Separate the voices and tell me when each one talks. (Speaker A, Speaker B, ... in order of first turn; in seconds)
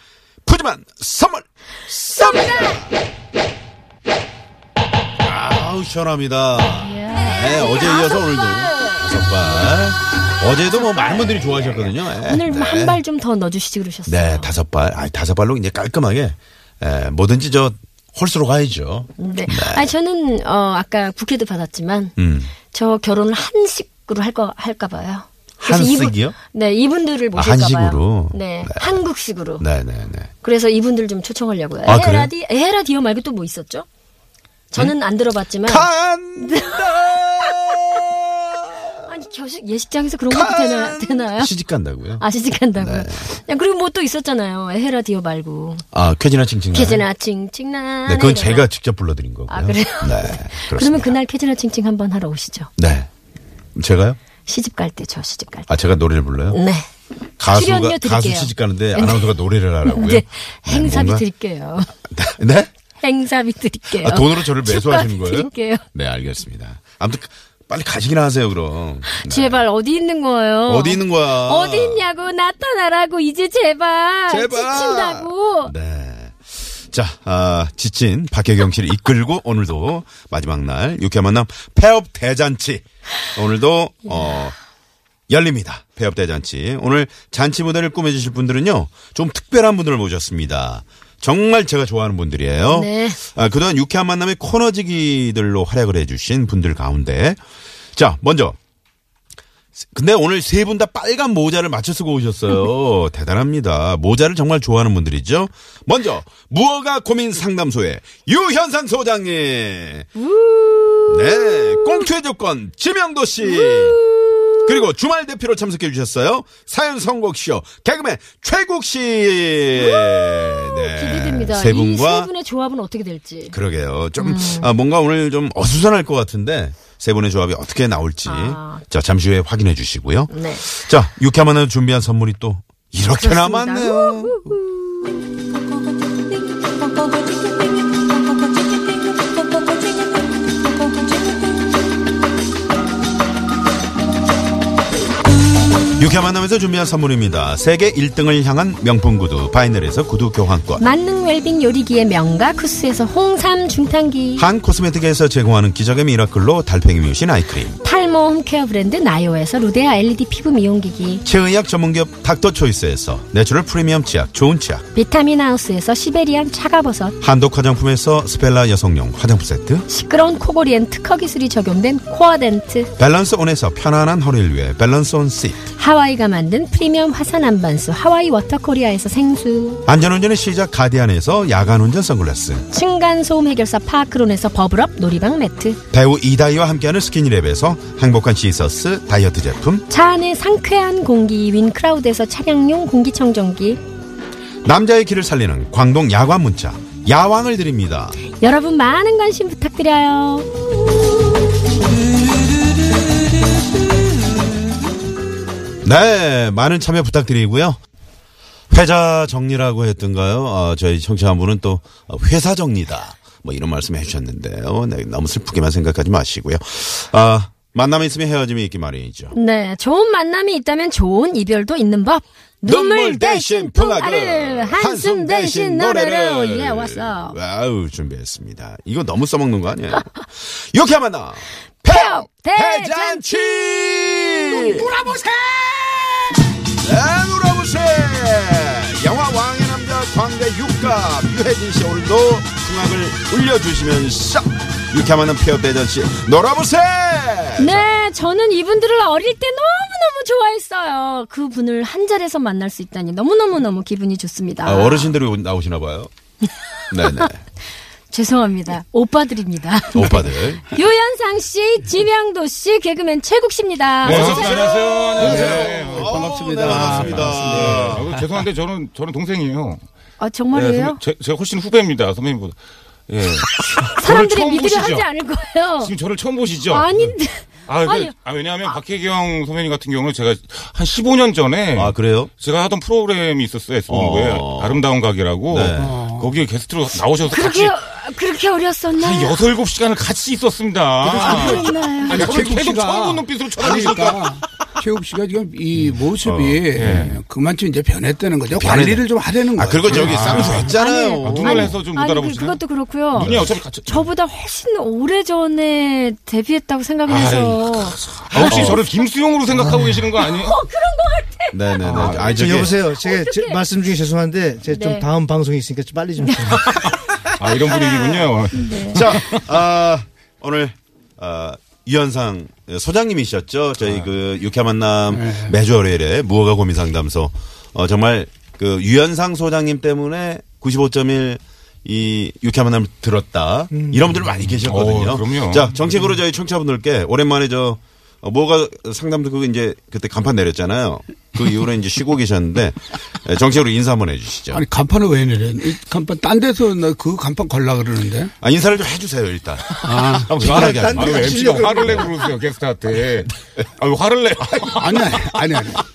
Speaker A: 0.5-3.0, 5.2-13.0, 14.1-19.9, 22.2-22.5, 25.6-26.4, 27.4-29.0, 29.6-30.3, 31.9-32.3, 35.6-39.0, 40.3-42.2, 42.8-43.3, 45.9-47.1, 48.1-51.2, 52.8-53.1, 53.8-54.2, 55.7-56.6, 57.4-61.2, 62.1-62.7, 63.9-69.6, 70.7-72.1, 74.3-84.6, 85.3-97.4, 98.0-98.6, 99.8-110.1, 111.1-114.0, 114.7-122.3, 123.5-134.6, 146.0-150.8, 154.4-157.8, 161.2-164.8, 167.2-169.9, 173.0-175.6, 179.9-182.7, 185.9-189.8, 194.7-198.2, 205.8-207.8, 208.7-219.3, 222.6-234.9, 236.8-248.0, 254.6-256.1, 256.9-257.4, 259.9-260.7, 264.0-268.1, 281.8-282.3, 283.9-284.8, 285.5-286.0, 296.2-297.2, 298.6-301.7, 303.2-303.6, 308.3-308.8, 311.5-312.7, 318.7-344.6, 348.4-352.1
Speaker B: 2.2-2.8, 6.7-8.3, 10.8-14.5, 19.2-29.6, 30.4-33.9, 34.7-37.2, 39.1-41.5, 42.2-45.9, 46.7-48.7, 49.5-52.7, 54.5-55.7, 56.5-56.9, 57.5-59.3, 59.9-61.9, 63.0-65.8, 69.1-75.7, 84.1-84.4, 92.7-93.2, 110.2-112.1, 113.4-114.8, 119.7-123.6, 124.2-124.7, 128.2-128.8, 130.3-130.6, 133.1-135.2, 150.8-154.5, 157.8-161.2, 164.9-167.2, 169.9-172.9, 175.7-179.8, 182.7-185.8, 189.9-193.8, 198.4-200.5, 219.3-227.4, 231.9-235.2, 247.6-255.2, 257.0-257.3, 258.1-264.6, 270.2-271.0, 273.7-275.9, 276.6-278.1, 287.3-289.4, 291.0-292.4, 300.5-308.9, 310.2-313.7, 314.7-315.1, 316.6-316.9, 317.6-319.0
Speaker C: 235.0-235.9, 265.2-268.1, 285.8-286.3, 292.1-300.5, 325.1-325.5, 344.5-348.3, 349.8-350.3, 354.8-355.8
Speaker D: 264.0-269.8, 270.5-272.6, 273.1-275.1, 275.8-277.0, 277.7-287.8, 289.0-294.4, 296.8-297.2, 299.9-302.6, 303.1-304.1, 307.1-310.6, 311.8-312.4, 316.6-319.4, 334.6-335.7, 350.1-355.4
Speaker E: 312.0-316.7, 350.3-352.1